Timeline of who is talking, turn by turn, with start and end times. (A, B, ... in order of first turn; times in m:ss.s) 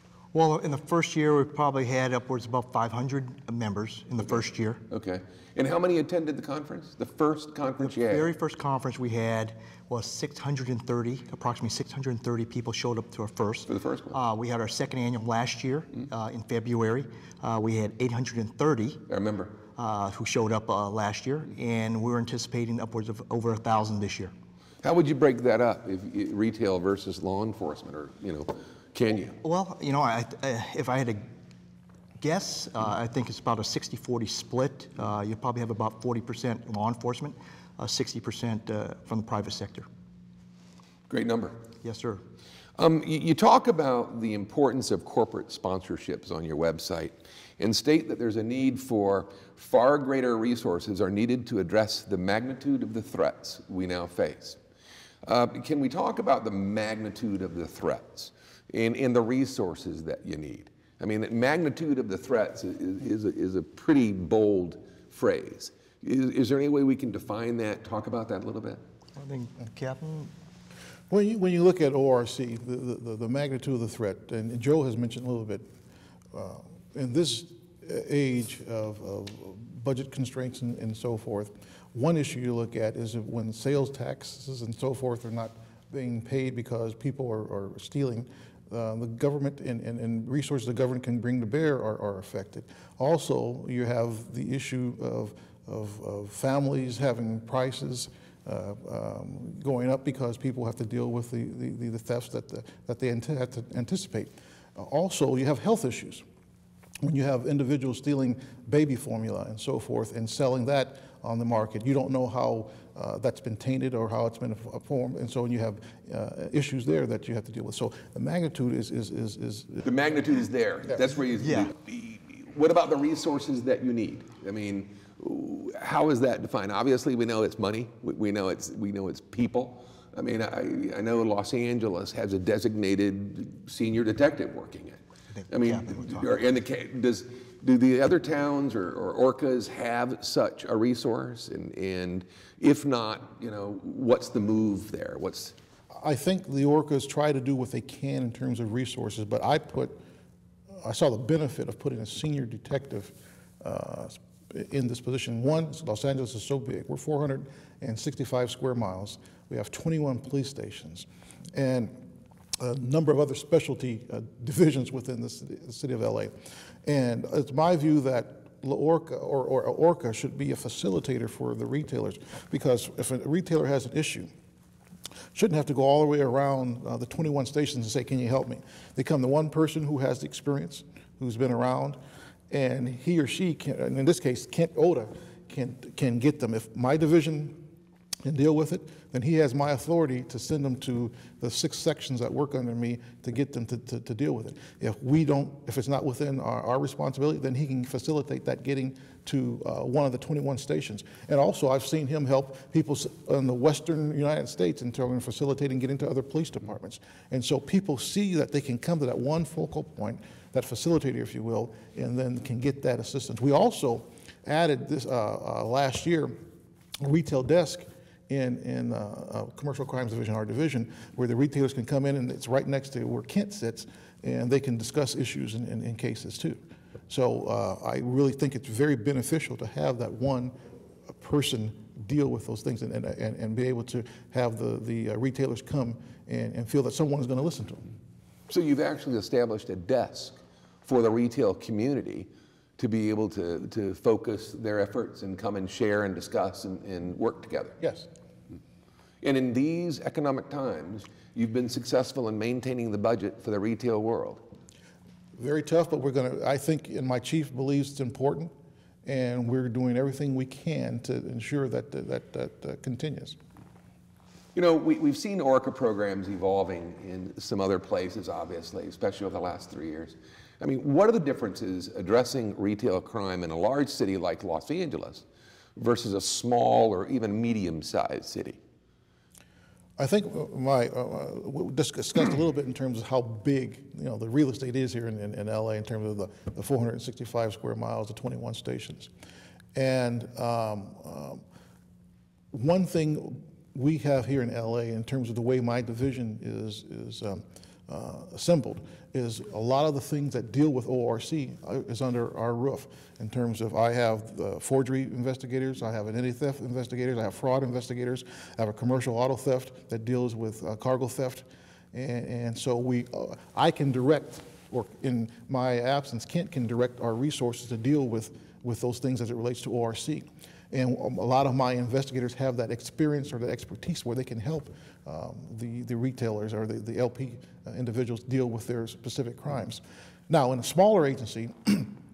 0:00.3-0:04.8 A
0:04.9-0:08.3 B
0:07.8-0:19.0 A
0:13.7-0:14.1 B
0:19.1-0:19.6 B
0:19.7-0:24.3 A
0:24.8-0:29.4 B
0:29.4-0:31.2 A
0:32.2-0:39.9 A
0:41.1-0:41.6 B
0:41.8-0:42.2 A
0:42.8-0:54.6 B
0:55.2-1:08.8 B
1:09.2-1:10.3 A
1:11.1-1:15.6 C
1:16.3-1:46.2 C
1:47.0-1:59.8 C
1:59.8-2:25.5 B
2:01.4-2:01.7 A
2:15.3-2:16.4 A
2:26.0-2:30.0 C
2:30.8-2:42.0 C
2:42.6-2:46.3 C
2:46.8-2:54.3 C
2:55.3-3:02.0 C
3:02.5-3:07.6 C
3:08.2-3:36.3 C
3:37.0-3:46.6 C
3:47.1-3:50.5 C
3:51.1-3:57.9 C
3:58.5-4:07.7 B
4:07.8-4:08.1 C
4:09.2-4:14.4 B
4:15.4-4:18.5 C
4:19.0-4:23.4 C
4:24.5-4:35.2 B
4:35.8-4:38.6 B
4:40.0-4:49.1 C
4:49.7-4:51.4 C
4:52.5-5:32.0 C